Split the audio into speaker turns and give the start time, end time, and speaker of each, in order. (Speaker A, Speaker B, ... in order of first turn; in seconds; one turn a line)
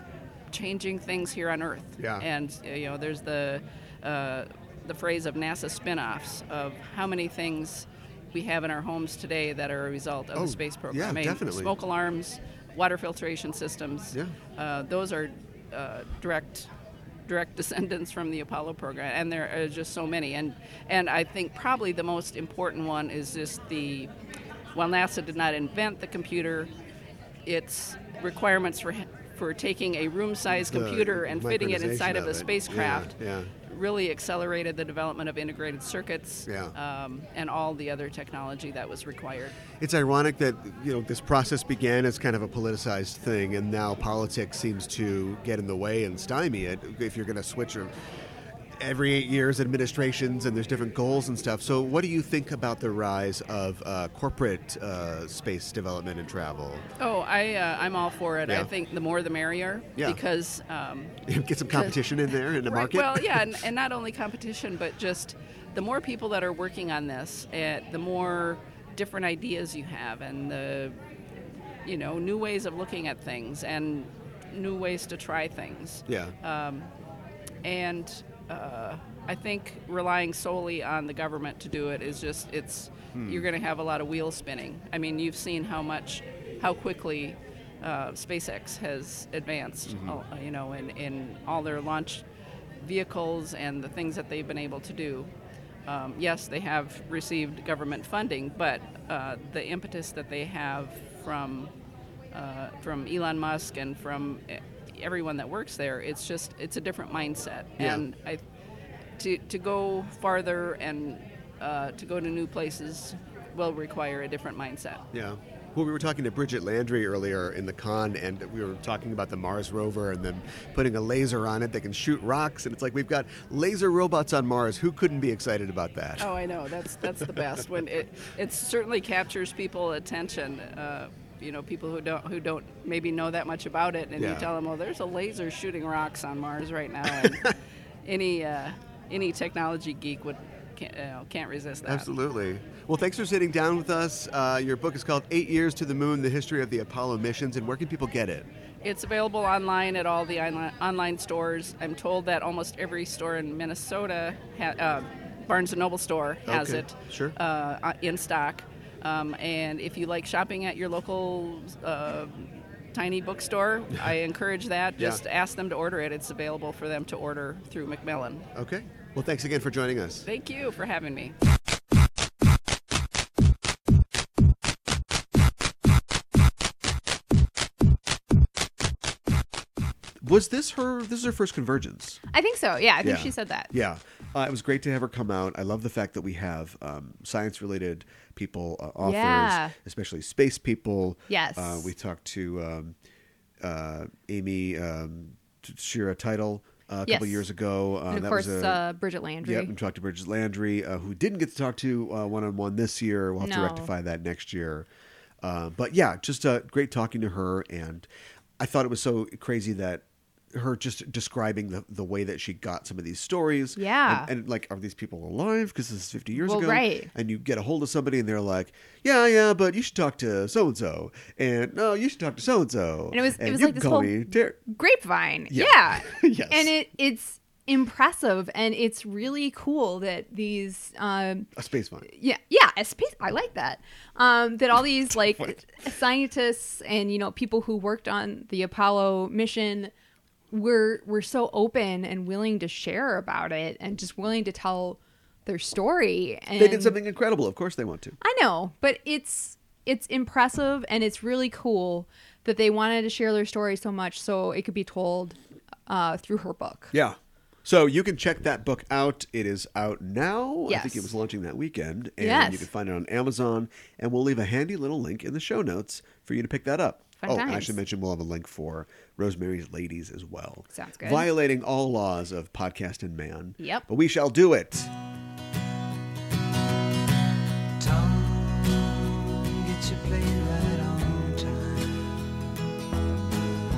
Speaker A: 0.5-16.7
Speaker B: 2.0-2.2
Speaker B: 10.3-11.7
Speaker A: 17.2-24.1
Speaker A: 24.7-26.7
Speaker A: 27.4-33.1
Speaker B: 30.5-33.5
Speaker A: 33.6-39.6
Speaker B: 36.5-36.7
Speaker B: 39.8-47.9
Speaker B: 48.8-56.9
Speaker A: 57.0-61.1
Speaker B: 61.2-63.6
Speaker A: 62.7-71.0
Speaker A: 71.8-76.9
Speaker B: 76.1-76.3
Speaker A: 77.6-92.2
Speaker B: 83.1-83.5
Speaker B: 89.9-90.2
Speaker A: 92.8-95.3
Speaker A: 95.9-101.7
Speaker A: 102.3-108.4
Speaker B: 107.8-108.0
Speaker A: 109.2-115.0
Speaker B: 115.1-126.3
Speaker A: 126.2-137.5
Speaker B: 127.0-127.6
Speaker B: 134.2-134.5
Speaker B: 137.2-137.5
Speaker A: 138.0-142.1
Speaker B: 141.8-148.5
Speaker A: 148.8-168.5
Speaker B: 156.4-157.4
Speaker B: 168.5-170.3
Speaker A: 170.2-171.3
Speaker B: 180.2-182.2
Speaker C: 182.3-183.7
Speaker B: 183.0-192.9
Speaker C: 189.0-189.7
Speaker C: 191.3-191.9
Speaker B: 193.6-198.8
Speaker C: 197.1-197.4
Speaker C: 198.1-199.7
Speaker B: 199.4-204.9
Speaker C: 203.4-203.9
Speaker B: 205.4-208.1
Speaker B: 208.6-224.6
Speaker C: 213.8-214.3
Speaker C: 216.4-217.1
Speaker C: 223.1-231.5
Speaker B: 225.5-226.7
Speaker B: 231.6-232.1
Speaker C: 232.1-239.9
Speaker C: 240.5-247.0
Speaker B: 246.6-248.2
Speaker C: 248.2-256.9
Speaker B: 256.9-274.9
Speaker C: 260.7-261.1
Speaker C: 262.2-262.7
Speaker C: 267.2-267.8
Speaker C: 270.7-271.3
Speaker C: 273.6-273.8
Speaker D: 277.8-282.2